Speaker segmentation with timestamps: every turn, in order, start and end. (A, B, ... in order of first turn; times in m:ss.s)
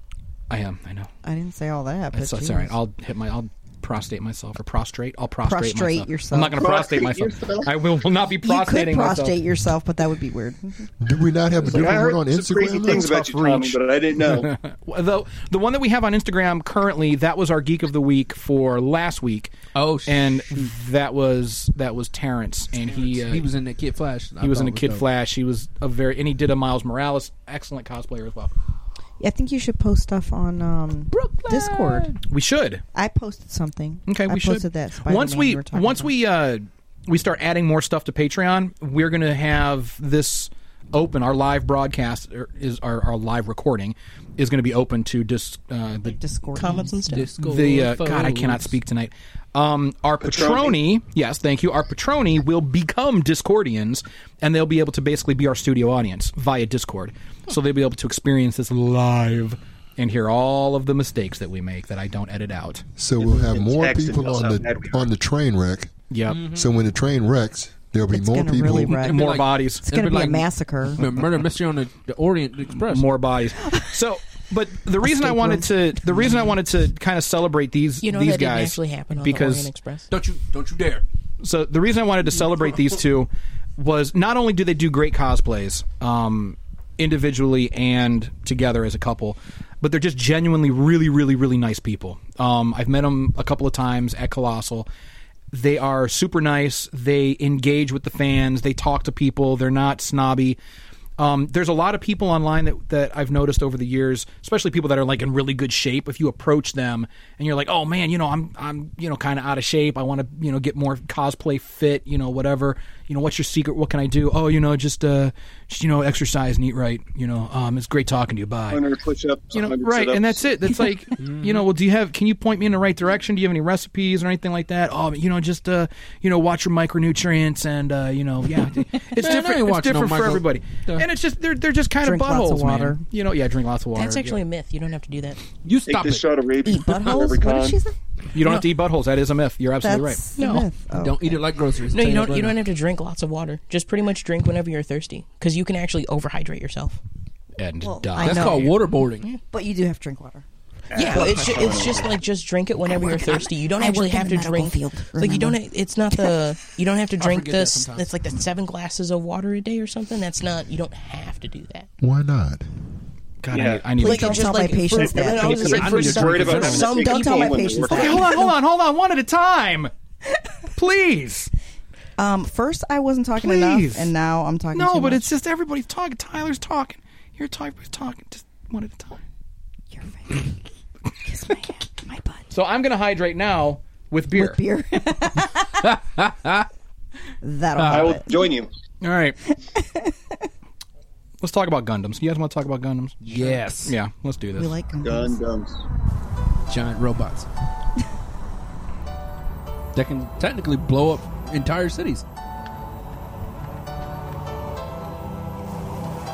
0:00.5-0:01.1 A
0:01.2-0:02.7 B
0:02.1-0:09.4 A
0:05.4-0:06.6 B
0:06.6-0:07.7 C
0:08.4-0:10.9 B
0:11.0-0:13.1 D
0:11.6-0:14.5 C
0:12.8-0:23.5 A
0:19.7-0:20.7 E
0:22.9-0:25.0 E
0:24.4-0:28.5 A
0:29.2-0:32.1 B
0:31.1-0:32.2 E
0:32.3-0:32.8 A
0:32.9-0:36.1 B
0:34.0-0:46.2 A
0:46.0-0:47.3 B
0:46.5-0:47.3 F
0:47.1-0:48.8 E
0:47.4-1:02.8 A
0:50.2-0:50.8 C
1:03.0-1:05.9 D
1:03.2-1:05.1 C
1:06.1-1:06.4 A
1:06.3-1:06.7 E
1:06.4-1:09.0 D
1:08.1-1:11.0 B
1:08.9-1:09.8 A
1:08.9-1:13.1 E
1:12.8-1:19.7 A
1:13.6-1:13.9 B
1:15.0-1:16.6 B
1:18.0-1:20.1 F
1:20.1-1:21.0 E
1:21.4-1:34.9 A
1:35.5-1:40.6 A
1:41.2-1:58.8 A
1:58.7-2:00.5 C
1:59.5-2:14.4 A
2:01.2-2:01.6 E
2:09.1-2:11.1 E
2:12.0-2:13.0 B
2:13.9-2:15.4 F
2:15.6-2:16.3 E
2:15.8-2:17.8 C
2:16.6-2:18.0 B
2:18.3-2:20.2 A
2:19.8-2:21.4 B
2:20.4-2:20.7 F
2:20.9-2:22.6 E
2:21.9-2:27.0 F
2:27.6-2:28.7 A
2:27.8-2:28.9 B
2:28.2-2:29.3 E
2:29.4-2:30.4 B
2:30.9-2:32.1 C
2:30.9-2:41.9 F
2:31.0-2:32.1 B
2:32.9-2:35.6 B
2:36.1-2:36.4 B
2:37.2-2:38.1 E
2:42.0-2:42.6 D
2:43.4-2:44.5 A
2:43.5-2:43.9 C
2:44.0-2:48.5 B
2:44.0-2:48.3 F
2:44.9-2:48.3 C
2:45.5-2:46.9 E
2:47.9-2:49.9 A
2:50.7-2:51.5 A
2:52.2-2:55.3 B
2:53.4-2:54.1 A
2:54.7-2:59.2 A
2:59.9-3:00.6 B
3:01.2-3:02.5 B
3:02.5-3:04.6 A
3:04.3-3:05.9 B
3:05.8-3:06.7 E
3:07.4-3:08.5 B
3:07.8-3:08.2 E
3:07.9-3:08.7 C
3:09.0-3:09.4 A
3:09.6-3:10.2 B
3:11.4-3:13.2 A
3:13.2-3:14.0 E
3:13.8-3:14.7 A
3:14.5-3:15.4 B
3:15.0-3:15.8 C
3:16.7-3:17.5 E
3:19.9-3:22.2 E